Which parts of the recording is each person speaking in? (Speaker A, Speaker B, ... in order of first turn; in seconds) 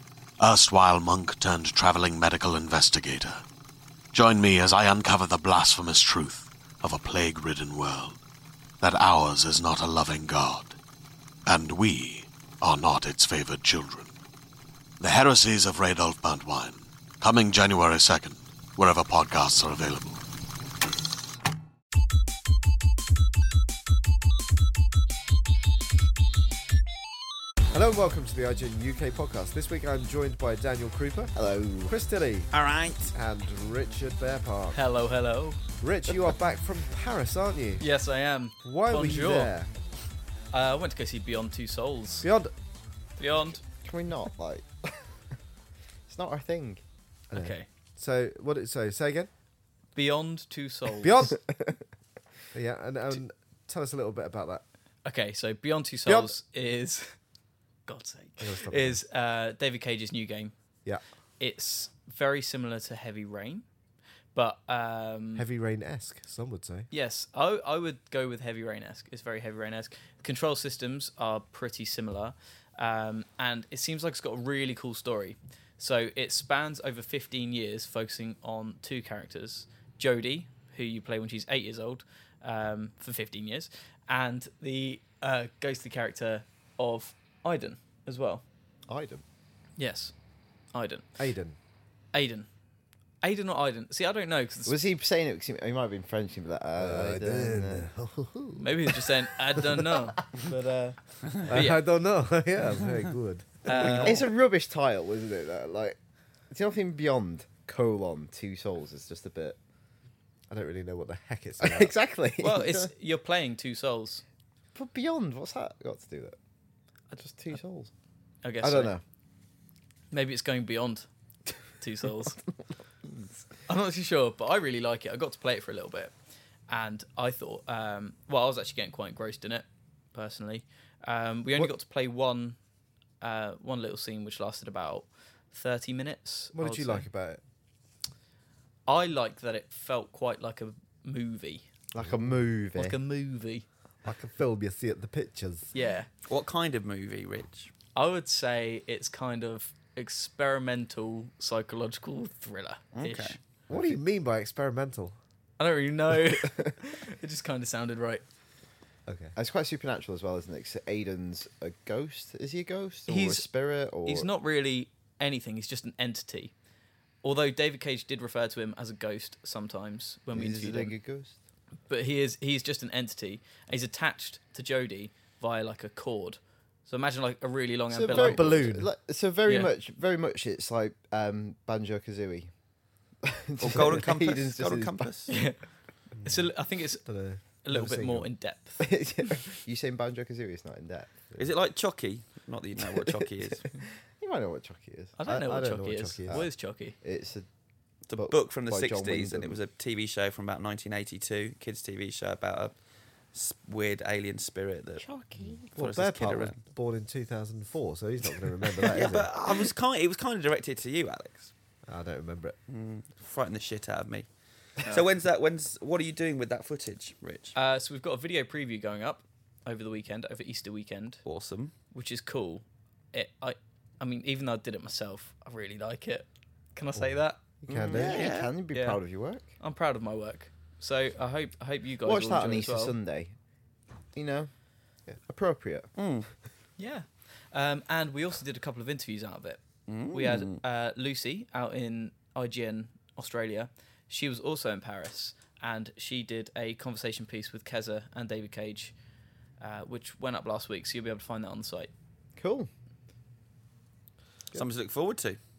Speaker A: 0.4-3.4, 4.1-8.2, 8.8-10.8, 11.4-14.1, 15.0-20.2
Speaker B: 27.7-31.3, 31.9-32.5, 33.1-34.8, 35.8-37.8, 38.6-39.7, 42.2-42.5, 47.3-49.3, 51.0-51.4, 52.5-54.6, 56.0-56.3, 58.4-59.0, 65.3-66.9, 91.2-91.6, 96.8-98.9, 101.5-104.1, 110.5-111.9, 136.5-137.4, 142.0-142.3, 144.0-145.7, 153.7-155.1, 159.1-159.3, 178.1-178.9, 186.2-188.3, 205.7-209.3, 211.8-212.6, 227.0-228.2
Speaker C: 31.3-32.0, 43.8-45.0, 46.1-46.8, 88.9-89.2, 94.7-97.9, 103.7-106.0, 106.5-109.6, 111.6-112.9, 114.7-116.4, 117.2-117.9, 118.6-119.0, 141.9-143.0, 153.7-154.0, 159.3-164.3, 170.3-171.4, 177.9-182.5, 183.2-185.1, 188.8-191.4, 193.1-193.6, 194.1-197.5, 198.2-199.6, 205.0-205.6, 227.7-229.5, 232.0-233.3, 234.1-234.5, 235.2-235.9, 252.4-252.7
Speaker D: 32.5-33.1, 146.3-147.7, 152.9-153.4, 183.6-185.3, 191.4-193.6, 198.1-202.7, 203.3-205.0, 205.7-206.6, 208.9-211.5, 212.7-214.3, 214.9-217.5, 221.2-221.7, 227.9-228.5, 235.9-236.3, 239.9-240.6, 254.5-255.4
Speaker E: 34.7-35.6, 37.8-39.5, 40.5-42.3, 43.2-43.6, 47.3-47.7, 50.0-51.3, 55.0-57.1, 57.9-60.5, 61.4-63.6, 64.3-65.4, 66.9-88.4, 89.8-90.1, 90.7-91.1, 92.1-92.5, 93.2-94.8, 98.6-101.8, 103.7-104.2, 112.4-114.2, 118.4-118.9, 120.1-121.1, 121.8-122.4, 123.7-126.1, 126.7-132.6, 133.2-137.1, 138.9-141.7, 142.7-143.7, 145.7-146.1, 147.9-153.4, 155.6-158.2, 163.1-163.4, 164.0-166.5, 167.2-170.9, 171.9-178.7, 185.3-185.6, 186.2-189.4, 195.2-197.0, 217.5-221.2, 221.9-227.4, 228.7-229.0, 229.6-232.9, 236.8-248.9, 249.6-251.9